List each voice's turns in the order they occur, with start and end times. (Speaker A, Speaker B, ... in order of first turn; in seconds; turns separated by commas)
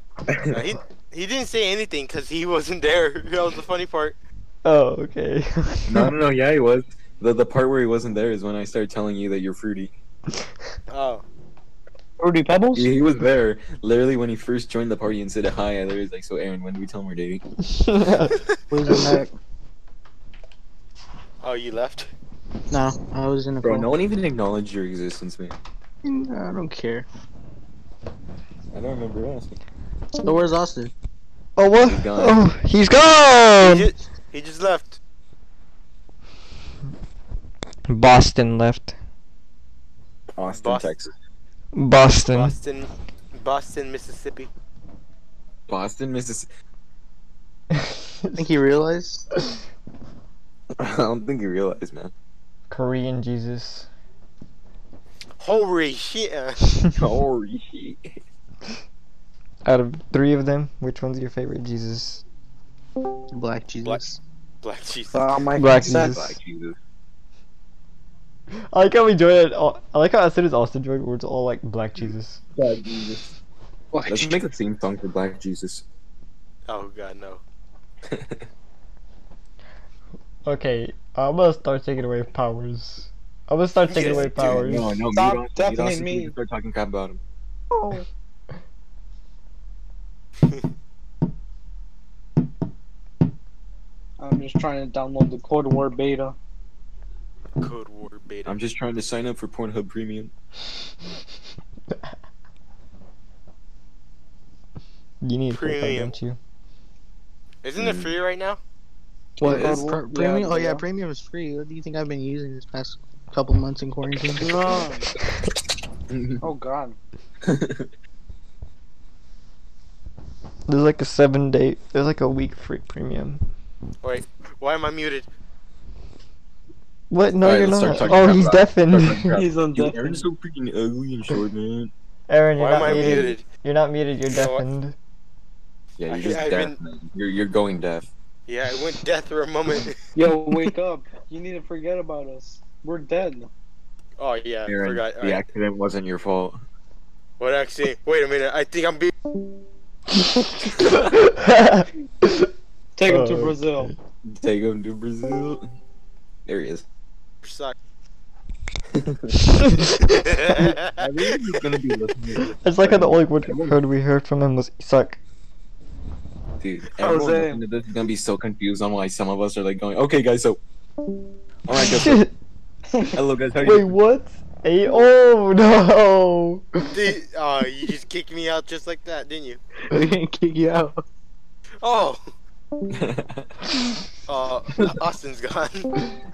Speaker A: 0.3-0.6, Speaker B: 0.5-4.2, Speaker C: 4.6-6.1, Speaker A: 5.9-9.9, Speaker B: 10.9-11.2, Speaker D: 12.2-12.9, Speaker A: 12.7-17.4, Speaker C: 17.6-18.4, Speaker E: 18.7-19.3, Speaker B: 21.4-22.1, Speaker E: 22.7-23.9, Speaker A: 23.6-25.6, Speaker E: 26.0-27.1, Speaker A: 28.7-29.6, Speaker E: 30.2-30.9, Speaker C: 31.6-33.9, Speaker A: 31.8-32.4, Speaker B: 33.6-35.0, Speaker C: 37.9-39.0, Speaker A: 40.3-41.1, Speaker B: 40.5-40.9, Speaker C: 41.7-42.5, Speaker B: 42.3-44.5, Speaker A: 45.7-46.5, Speaker C: 47.7-48.4, Speaker E: 48.3-49.2, Speaker A: 50.8-52.1, Speaker C: 52.7-53.9, Speaker B: 55.4-56.7, Speaker A: 56.9-58.1, Speaker C: 59.6-62.2, Speaker E: 63.3-64.2, Speaker B: 64.6-65.3, Speaker D: 65.1-66.3, Speaker C: 65.5-66.3, Speaker A: 65.7-66.8, Speaker C: 68.7-72.4, Speaker A: 72.5-73.3, Speaker D: 73.9-74.4, Speaker A: 74.0-75.8, Speaker B: 76.7-77.4, Speaker A: 78.1-78.5, Speaker C: 80.4-84.9, Speaker A: 83.9-87.2, Speaker D: 85.1-86.3, Speaker D: 87.7-88.0, Speaker D: 94.2-96.3, Speaker B: 97.6-98.6, Speaker A: 98.5-100.3, Speaker C: 105.2-106.4, Speaker B: 105.5-106.1, Speaker B: 107.6-108.6, Speaker A: 107.8-108.1, Speaker E: 109.4-114.7, Speaker D: 109.4-110.8, Speaker A: 109.5-109.8, Speaker D: 114.4-115.1, Speaker A: 116.1-116.4, Speaker D: 116.4-117.0, Speaker A: 117.4-117.9, Speaker C: 120.7-123.4, Speaker B: 124.0-125.3, Speaker C: 127.1-129.4, Speaker A: 127.4-131.9, Speaker D: 129.3-130.2, Speaker C: 132.3-134.9, Speaker B: 132.6-133.4, Speaker A: 132.8-133.3, Speaker B: 134.3-134.6, Speaker A: 136.0-138.1, Speaker B: 136.1-136.8, Speaker B: 138.5-140.0, Speaker D: 140.1-143.5, Speaker B: 144.2-145.4, Speaker A: 144.7-146.6, Speaker B: 147.4-149.1, Speaker C: 151.1-152.5, Speaker D: 152.9-153.9, Speaker C: 153.1-153.9, Speaker A: 154.2-155.7, Speaker A: 156.4-156.8, Speaker B: 157.4-157.7, Speaker A: 158.9-159.7, Speaker B: 160.2-160.9, Speaker A: 160.6-163.8, Speaker C: 162.6-165.2, Speaker A: 166.6-170.6, Speaker D: 166.9-167.6, Speaker A: 171.7-172.2, Speaker C: 171.7-172.3, Speaker A: 173.1-173.9, Speaker C: 173.6-177.0, Speaker B: 176.9-179.6, Speaker E: 179.9-180.9, Speaker B: 181.8-182.2, Speaker A: 182.9-183.6, Speaker B: 184.3-185.9